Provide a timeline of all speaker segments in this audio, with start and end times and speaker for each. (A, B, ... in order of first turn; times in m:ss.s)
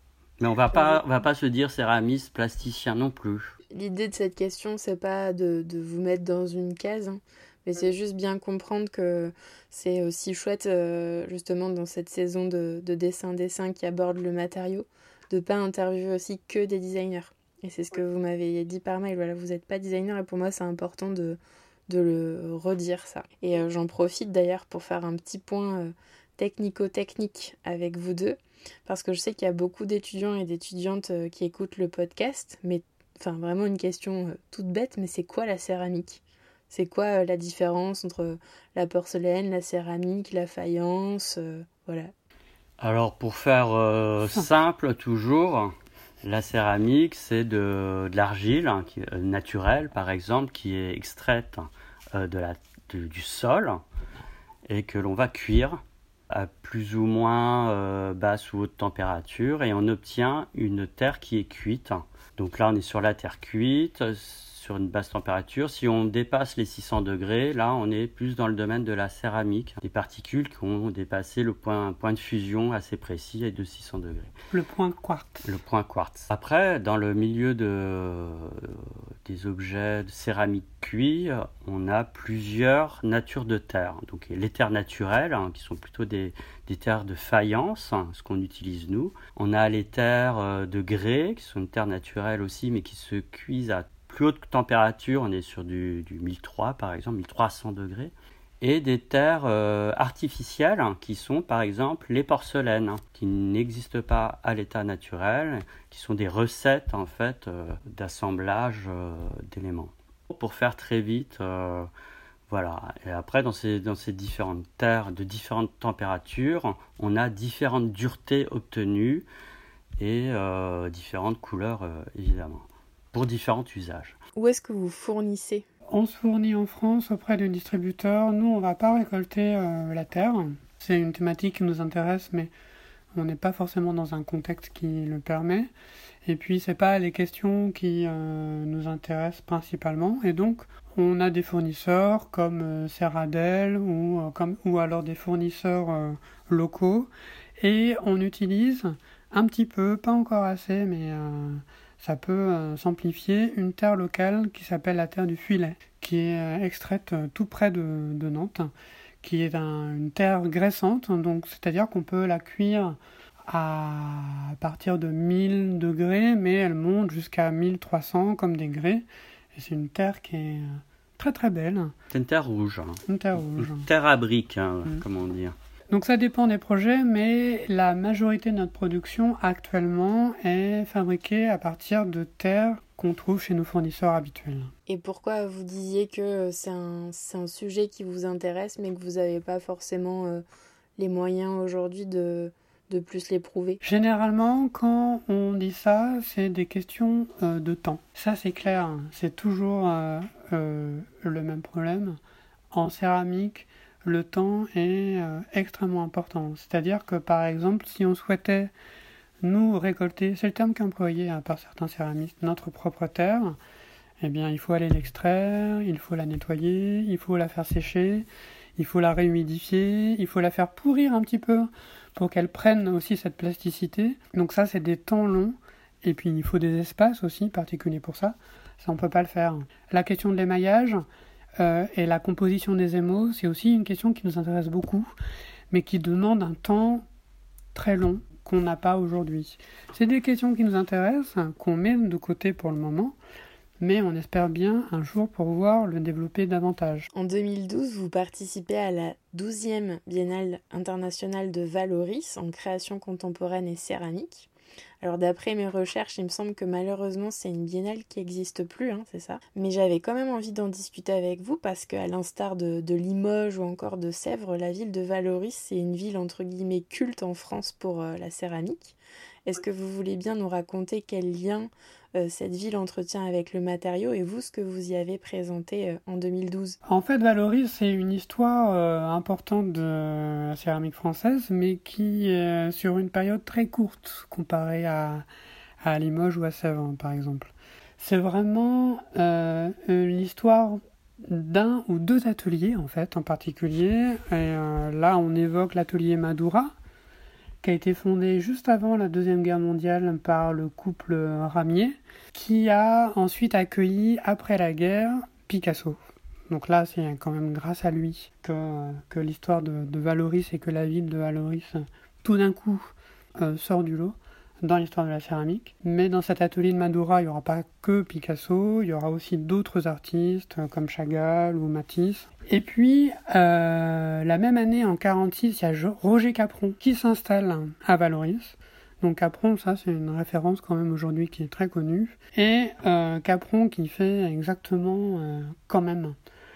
0:00.4-0:03.5 A
0:03.7-0:42.1 B
0:42.8-0:53.8 A
0:54.7-1:14.3 A
1:14.5-1:15.5 C
1:15.4-1:51.9 A
1:52.5-1:59.3 A
2:00.0-2:04.2 A
2:04.4-2:05.6 B
2:05.9-2:12.5 C
2:13.1-2:15.7 C
2:16.2-2:51.9 C
2:52.1-2:53.0 A
2:53.1-2:53.9 C
2:53.6-2:55.5 A
2:55.9-3:04.7 C
3:04.9-3:10.4 B
3:11.0-3:13.8 B
3:13.8-3:22.2 C
3:22.7-3:28.7 C
3:29.4-3:33.6 C
3:34.2-3:51.0 C
3:51.6-3:55.1 C
3:55.7-3:57.0 C
3:57.7-4:03.2 C
4:03.8-4:07.1 C
4:07.1-4:14.5 B
4:15.0-4:36.8 B
4:36.8-4:45.2 C
4:45.8-4:56.7 C
4:57.6-5:06.0 C
5:06.5-5:36.2 C